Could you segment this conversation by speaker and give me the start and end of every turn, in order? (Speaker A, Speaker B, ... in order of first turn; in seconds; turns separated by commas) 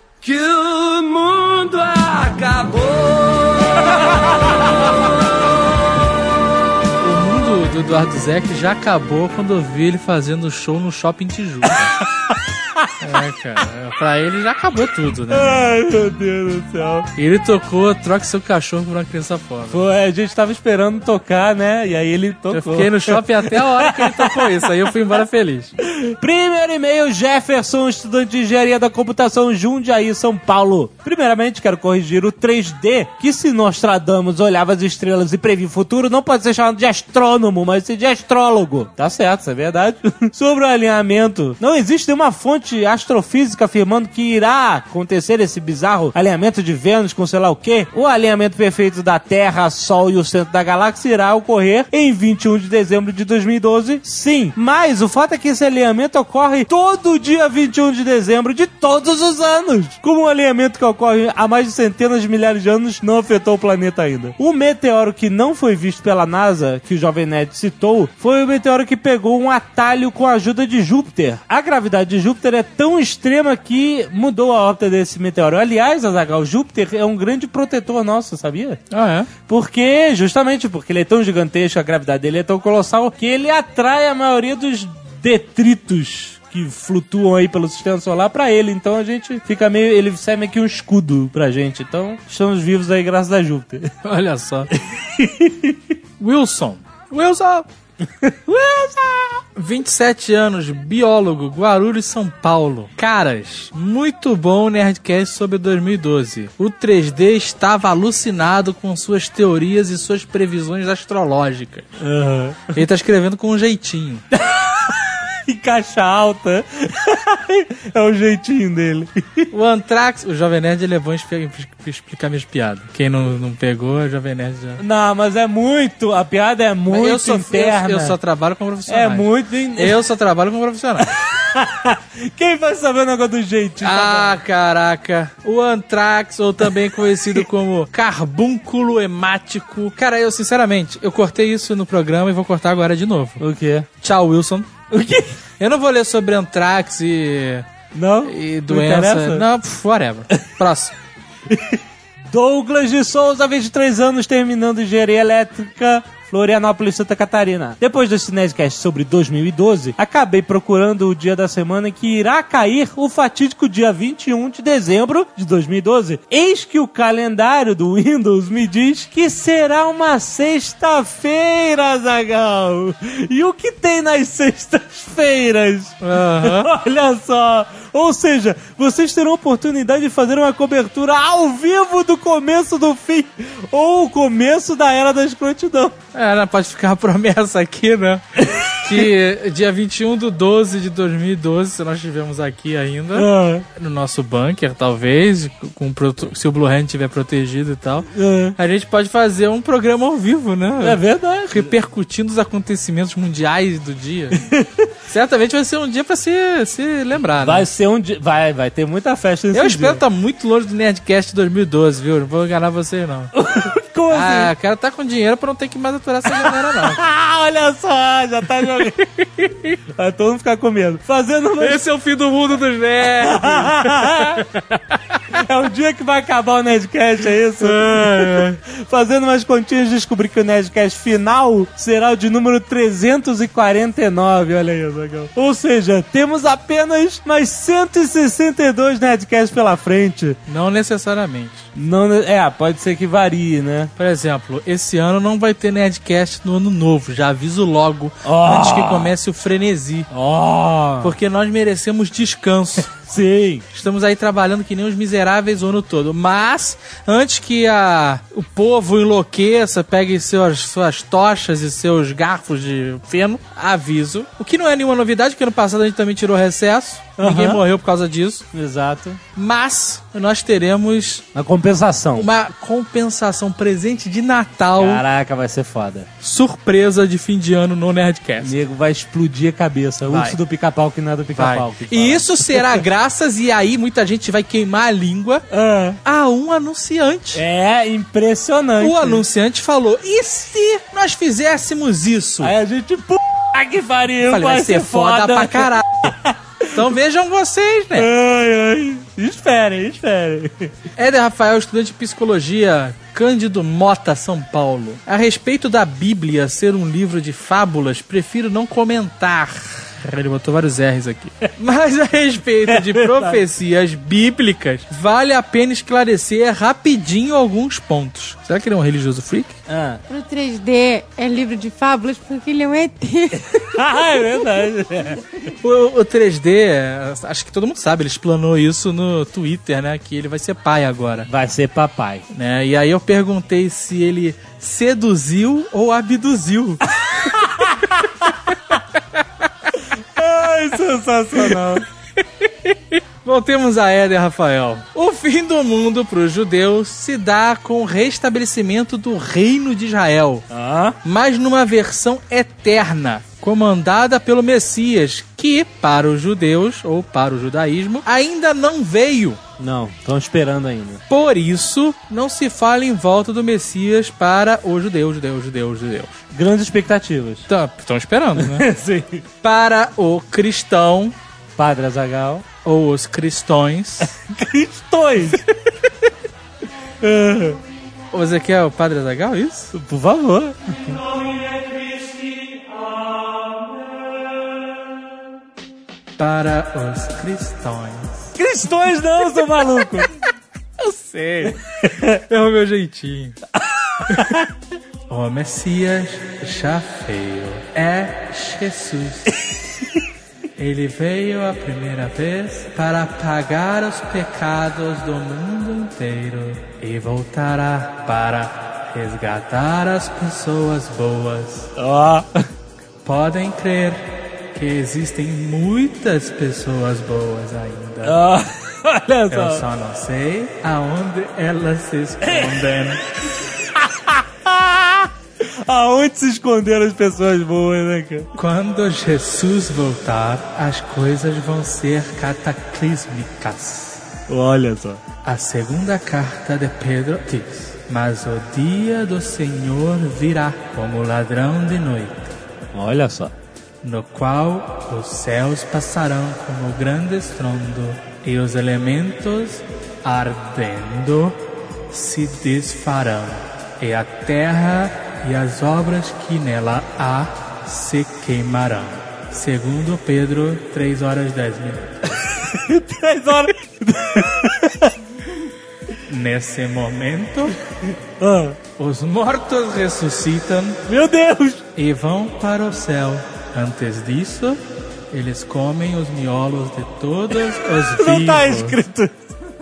Speaker A: 0.2-6.2, Speaker B: 7.0-12.0, Speaker C: 12.0-12.8, Speaker B: 13.0-15.6, Speaker C: 15.3-17.1, Speaker B: 17.2-19.8, Speaker C: 19.7-24.6, Speaker B: 22.5-25.7, Speaker C: 25.8-78.8, Speaker B: 78.9-79.3, Speaker C: 79.5-93.9, Speaker B: 94.0-94.7, Speaker C: 94.7-95.8, Speaker B: 96.2-97.7, Speaker C: 98.2-99.4, Speaker B: 99.5-111.9, Speaker C: 112.0-112.8, Speaker B: 112.7-114.2, Speaker C: 114.3-119.5, Speaker B: 119.5-124.8, Speaker C: 124.8-128.2, Speaker B: 126.9-131.1, Speaker C: 128.9-130.0, Speaker C: 131.0-134.4, Speaker B: 133.8-143.4, Speaker C: 143.4-143.9, Speaker B: 144.0-144.7, Speaker C: 144.9-145.3, Speaker B: 145.6-147.7, Speaker C: 147.9-149.4, Speaker B: 148.2-150.9, Speaker C: 151.5-186.0, Speaker B: 176.0-176.7, Speaker B: 186.1-204.4, Speaker C: 188.4-189.1, Speaker C: 193.1-193.7, Speaker C: 198.1-198.6, Speaker C: 200.8-201.7, Speaker C: 204.3-204.9, Speaker B: 205.1-207.7, Speaker C: 207.4-210.0, Speaker B: 209.5-213.3, Speaker C: 213.3-214.5, Speaker B: 214.1-217.0, Speaker C: 216.2-221.8, Speaker B: 221.6-225.2, Speaker C: 223.2-224.4, Speaker C: 225.3-240.4, Speaker B: 227.6-228.6, Speaker B: 240.5-241.7, Speaker C: 241.8-243.9, Speaker B: 244.0-250.1, Speaker C: 248.2-249.1, Speaker C: 250.1-251.1, Speaker B: 251.0-252.9, Speaker C: 252.9-253.7, Speaker B: 253.7-268.4, Speaker C: 267.2-267.6, Speaker C: 268.5-269.2, Speaker B: 269.4-271.2, Speaker C: 271.3-272.3, Speaker B: 272.2-275.0, Speaker C: 274.8-276.1, Speaker B: 276.2-278.5, Speaker C: 278.4-282.8, Speaker B: 280.1-280.4, Speaker B: 281.3-285.4, Speaker C: 285.5-286.0, Speaker B: 286.0-287.4, Speaker C: 287.3-289.2, Speaker B: 288.8-292.5, Speaker C: 292.4-296.8, Speaker B: 294.2-296.1, Speaker B: 296.7-298.1, Speaker C: 297.9-300.7, Speaker B: 300.9-319.6, Speaker C: 312.7-313.4, Speaker C: 319.7-320.0, Speaker D: 320.1-323.8, Speaker C: 323.4-325.2, Speaker B: 325.6-331.3, Speaker C: 331.3-332.2, Speaker B: 332.3-337.7, Speaker C: 337.2-337.7, Speaker C: 340.1-341.8, Speaker B: 342.4-350.4, Speaker C: 350.5-351.0, Speaker B: 351.0-359.4, Speaker C: 359.6-361.0, Speaker B: 361.1-366.2, Speaker C: 366.3-367.5, Speaker B: 367.5-368.7, Speaker C: 368.4-369.2, Speaker B: 369.4-371.1, Speaker C: 371.6-372.4, Speaker B: 372.6-374.1, Speaker C: 374.1-375.4, Speaker C: 377.0-377.6, Speaker B: 378.1-379.7, Speaker C: 379.7-383.4, Speaker B: 386.2-388.3, Speaker C: 388.4-390.1, Speaker B: 390.8-391.6, Speaker C: 391.8-392.2, Speaker B: 392.1-393.4, Speaker C: 393.6-394.5, Speaker B: 394.1-394.4, Speaker B: 395.1-399.3, Speaker B: 400.6-411.7, Speaker C: 411.8-412.4, Speaker B: 413.0-418.2, Speaker C: 418.0-419.6, Speaker B: 419.3-423.0, Speaker C: 422.2-422.6, Speaker C: 423.5-428.3, Speaker B: 428.3-434.0, Speaker C: 434.3-435.0, Speaker B: 435.2-442.4, Speaker C: 442.7-443.3, Speaker B: 443.8-462.1, Speaker C: 462.2-464.9, Speaker B: 466.1-467.6, Speaker C: 467.9-468.6, Speaker B: 468.8-470.8, Speaker C: 470.9-471.6, Speaker B: 471.8-478.8, Speaker C: 477.6-479.1